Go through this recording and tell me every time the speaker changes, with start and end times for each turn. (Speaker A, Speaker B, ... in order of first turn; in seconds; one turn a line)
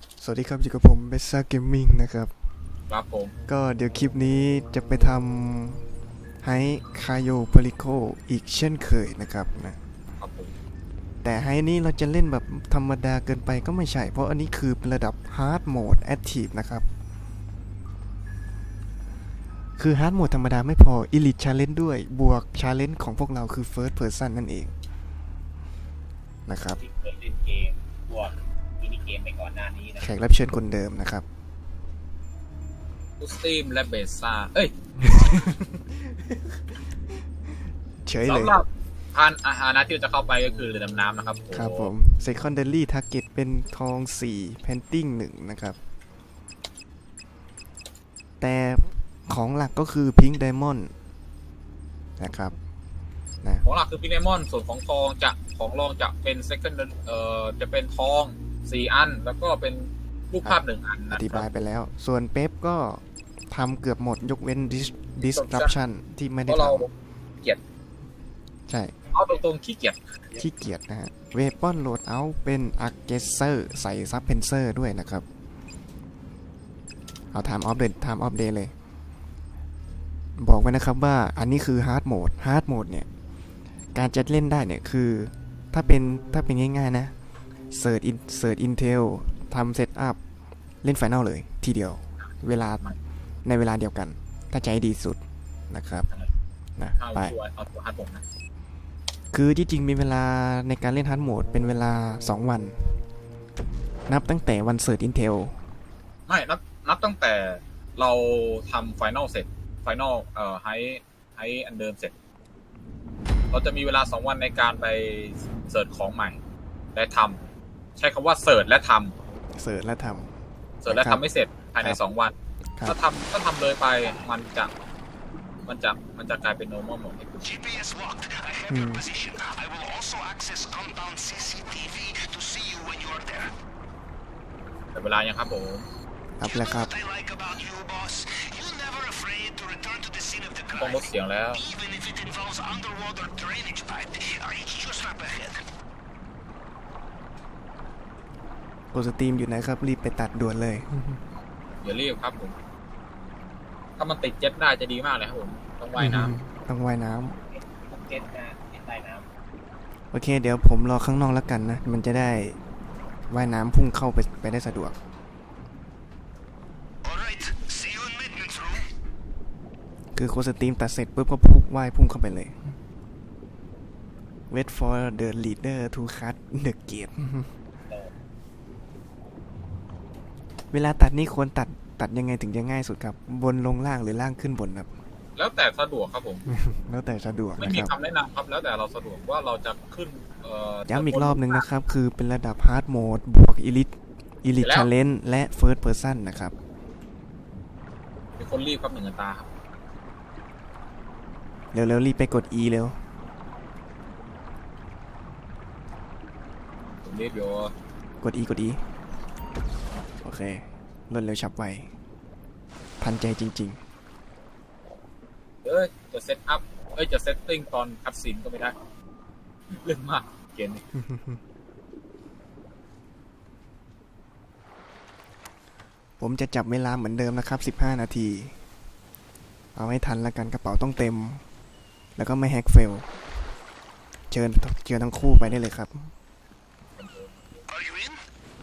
Speaker A: 0.2-2.3
Speaker B: 2.9-3.3
Speaker A: 3.5-5.8
Speaker A: 6.4-9.8
Speaker B: 10.2-10.5
Speaker A: 11.2-16.9
Speaker A: 19.8-24.7
Speaker A: 26.5-26.8
Speaker C: 26.8-30.1
Speaker A: 30.0-31.2
Speaker B: 33.2-34.7
Speaker A: 35.0-36.6
Speaker A: 38.0-38.5
Speaker B: 38.2-41.9
Speaker A: 41.5-45.8
Speaker A: 48.4-50.9
Speaker A: 52.2-52.5
Speaker B: 53.6-61.5
Speaker A: 60.4-66.8
Speaker B: 65.3-65.7
Speaker B: 66.5-66.9
Speaker A: 68.7-68.9
Speaker B: 69.1-70.0
Speaker A: 70.3-75.2
Speaker A: 77.3-78.7
Speaker A: 80.4-83.1
Speaker A: 83.9-87.1
Speaker A: 87.7-90.2
Speaker A: 90.8-92.8
Speaker A: 93.4-96.1
Speaker A: 96.8-97.3
Speaker B: 97.0-98.2
Speaker A: 99.3-103.0
Speaker A: 104.1-105.6
Speaker B: 106.3-112.1
Speaker B: 113.5-116.4
Speaker B: 116.9-117.4
Speaker B: 118.0-119.1
Speaker A: 119.5-120.3
Speaker B: 120.8-122.3
Speaker A: 120.8-121.2
Speaker B: 122.8-124.7
Speaker B: 125.7-127.4
Speaker D: 127.4-133.5
Speaker A: 128.7-129.1
Speaker B: 134.9-135.9
Speaker A: 136.4-136.9
Speaker D: 136.4-145.6
Speaker B: 140.7-141.6
Speaker A: 148.9-151.2
Speaker B: 151.8-152.5
Speaker B: 154.0-156.3
Speaker A: 155.9-157.4
Speaker C: 157.5-159.2
Speaker A: 160.1-162.6
Speaker A: 163.3-164.9
Speaker D: 167.0-168.9
Speaker A: 170.1-172.8
Speaker A: 174.5-177.5
Speaker A: 180.7-184.9
Speaker B: 185.3-186.5
Speaker A: 186.5-187.9
Speaker B: 187.6-191.6
Speaker A: 190.8-196.5
Speaker B: 194.6-194.9
Speaker B: 198.4-199.5
Speaker A: 201.7-203.0
Speaker B: 207.0-207.7
Speaker A: 208.2-208.8
Speaker A: 210.2-211.9
Speaker A: 213.0-213.8
Speaker B: 215.6-218.7
Speaker B: 219.7-220.8
Speaker A: 220.9-221.4
Speaker A: 226.2-228.6
Speaker A: 229.7-231.4
Speaker A: 232.2-233.1
Speaker A: 234.3-236.1
Speaker B: 237.0-237.6
Speaker D: 237.7-238.2